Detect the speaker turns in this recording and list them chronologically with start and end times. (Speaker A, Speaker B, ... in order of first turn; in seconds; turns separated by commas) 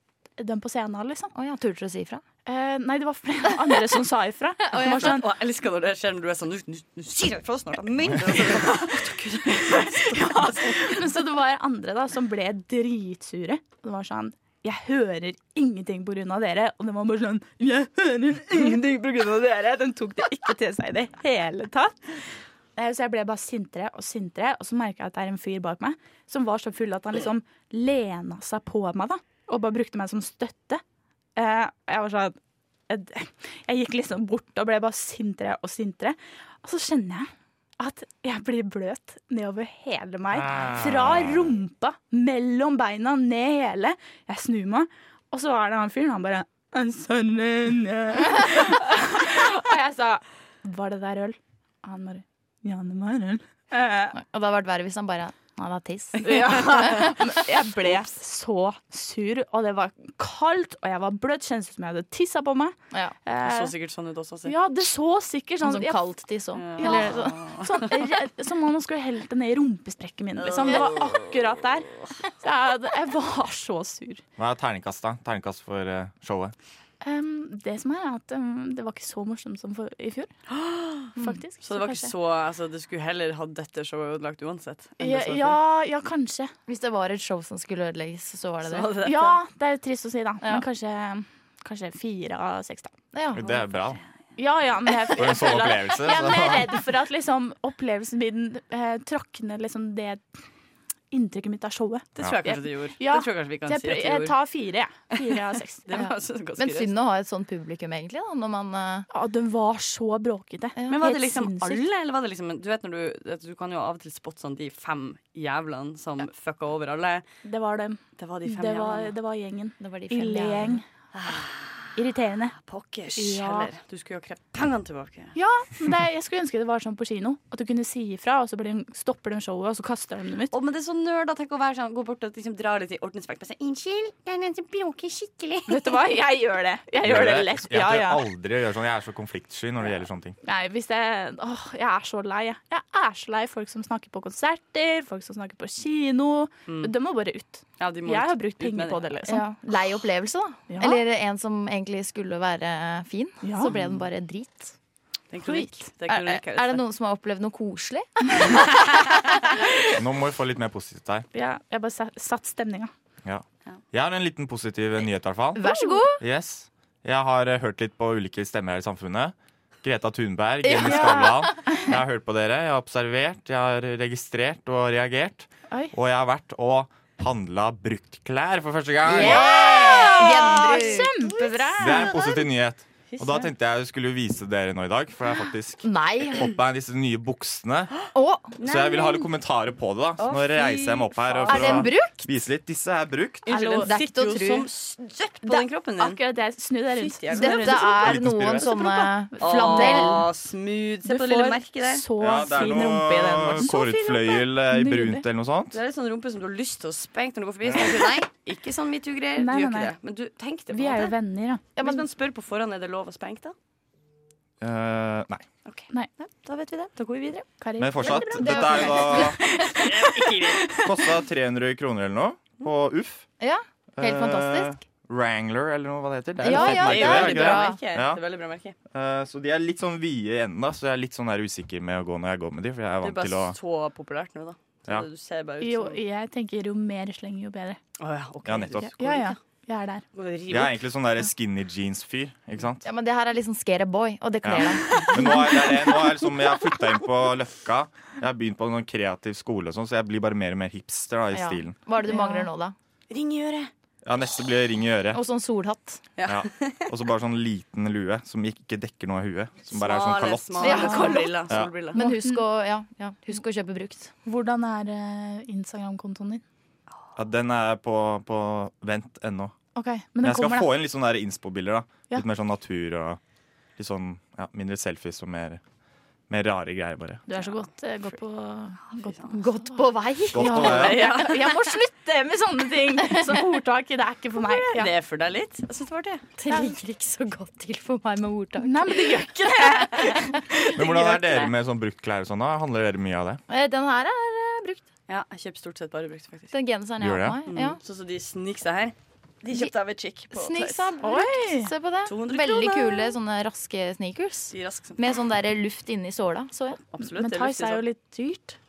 Speaker A: 0.4-1.3, Speaker B: 1.3-2.2, Speaker A: 2.5-5.2, Speaker B: 4.7-5.1, Speaker C: 4.7-11.0, Speaker A: 10.1-22.0, Speaker A: 22.8-30.8, Speaker A: 31.4-32.4, Speaker A: 32.9-54.1, Speaker D: 40.3-41.6, Speaker B: 54.1-57.1, Speaker A: 56.2-62.7, Speaker A: 63.2-63.7, Speaker C: 63.4-64.5, Speaker A: 64.4-66.0, Speaker B: 65.6-67.4, Speaker C: 66.5-68.0, Speaker A: 66.8-71.9, Speaker C: 70.4-72.1, Speaker A: 72.4-74.2, Speaker D: 74.4-76.5, Speaker A: 77.0-80.3, Speaker C: 80.5-85.6, Speaker A: 81.2-82.1, Speaker A: 85.0-86.5, Speaker B: 86.7-89.0, Speaker C: 88.6-89.4, Speaker A: 89.0-92.9, Speaker B: 93.1-93.5, Speaker D: 93.3-94.0, Speaker C: 93.4-93.7, Speaker A: 94.4-100.2, Speaker D: 95.1-96.8, Speaker A: 101.1-105.9, Speaker C: 102.2-104.3, Speaker C: 105.9-106.9, Speaker B: 105.9-109.1, Speaker A: 109.1-111.8, Speaker C: 110.9-117.2, Speaker A: 117.4-120.8, Speaker C: 118.2-119.1, Speaker B: 119.8-120.8, Speaker C: 121.1-122.0, Speaker A: 122.0-122.5, Speaker C: 122.5-125.3, Speaker A: 123.2-123.7, Speaker A: 125.3-130.5, Speaker C: 130.5-135.9, Speaker A: 135.7-138.2, Speaker D: 137.0-140.3, Speaker A: 140.4-149.4, Speaker C: 146.7-146.9, Speaker C: 147.8-149.0, Speaker B: 149.3-154.7, Speaker A: 150.7-151.0, Speaker A: 153.4-153.7, Speaker C: 153.7-154.0, Speaker C: 155.3-156.8, Speaker A: 155.4-155.9, Speaker B: 156.1-159.3, Speaker D: 159.9-161.2, Speaker A: 161.3-162.9, Speaker D: 163.2-179.5, Speaker B: 165.6-166.2, Speaker A: 165.6-166.1, Speaker B: 170.6-171.8, Speaker A: 170.8-171.3, Speaker B: 179.1-181.1, Speaker A: 179.1-182.2, Speaker C: 179.7-182.1, Speaker D: 181.8-187.9, Speaker C: 183.1-183.5, Speaker B: 185.8-186.4, Speaker B: 188.1-188.6, Speaker C: 188.6-189.2, Speaker D: 188.6-193.5, Speaker B: 190.2-190.5, Speaker C: 190.6-191.9, Speaker B: 191.5-192.3, Speaker C: 193.4-196.2, Speaker B: 193.5-194.7, Speaker A: 195.4-200.2, Speaker C: 196.9-197.8, Speaker B: 197.3-200.2, Speaker D: 198.0-198.8, Speaker C: 199.4-202.1, Speaker A: 201.0-205.2, Speaker D: 202.2-205.8, Speaker C: 203.6-204.4, Speaker C: 205.7-211.1, Speaker A: 209.4-209.9, Speaker A: 210.7-211.7, Speaker C: 211.8-213.5, Speaker D: 214.6-215.4, Speaker C: 215.6-217.4, Speaker A: 217.6-220.9, Speaker D: 217.8-219.4, Speaker B: 218.0-219.4, Speaker C: 219.7-220.6, Speaker D: 220.8-223.3, Speaker B: 223.4-224.8, Speaker D: 223.9-228.2, Speaker B: 226.4-227.8, Speaker C: 226.4-228.7, Speaker D: 228.9-233.6, Speaker C: 233.0-236.0, Speaker A: 235.6-237.8, Speaker C: 238.0-239.4, Speaker D: 238.4-238.9, Speaker A: 239.0-240.0, Speaker C: 240.1-240.8, Speaker D: 240.5-242.9, Speaker B: 242.8-245.4, Speaker D: 244.4-251.8, Speaker B: 251.3-252.7, Speaker A: 252.1-252.4, Speaker C: 253.1-253.7, Speaker D: 254.0-255.2, Speaker B: 255.1-256.0, Speaker C: 256.2-256.9, Speaker D: 256.3-261.7, Speaker C: 259.7-262.0, Speaker B: 260.6-264.1, Speaker A: 260.7-261.2, Speaker A: 261.9-262.4, Speaker A: 264.2-266.4, Speaker D: 267.1-269.5, Speaker A: 269.8-270.7, Speaker D: 270.2-273.2, Speaker D: 273.8-275.6, Speaker D: 276.3-277.2, Speaker A: 277.3-279.2, Speaker C: 278.9-279.4, Speaker B: 279.3-281.6, Speaker D: 280.3-281.1, Speaker A: 280.4-284.9, Speaker C: 280.6-281.5, Speaker C: 284.4-286.2, Speaker B: 286.4-290.3, Speaker A: 286.5-286.7, Speaker A: 288.6-291.5, Speaker D: 290.7-293.4, Speaker B: 293.5-294.8, Speaker C: 295.1-296.5, Speaker B: 296.5-297.8, Speaker D: 297.0-297.4, Speaker C: 297.5-300.9, Speaker B: 300.3-306.8, Speaker A: 301.0-301.7, Speaker C: 302.1-303.1, Speaker C: 304.5-305.0, Speaker C: 306.8-307.8, Speaker A: 307.0-308.6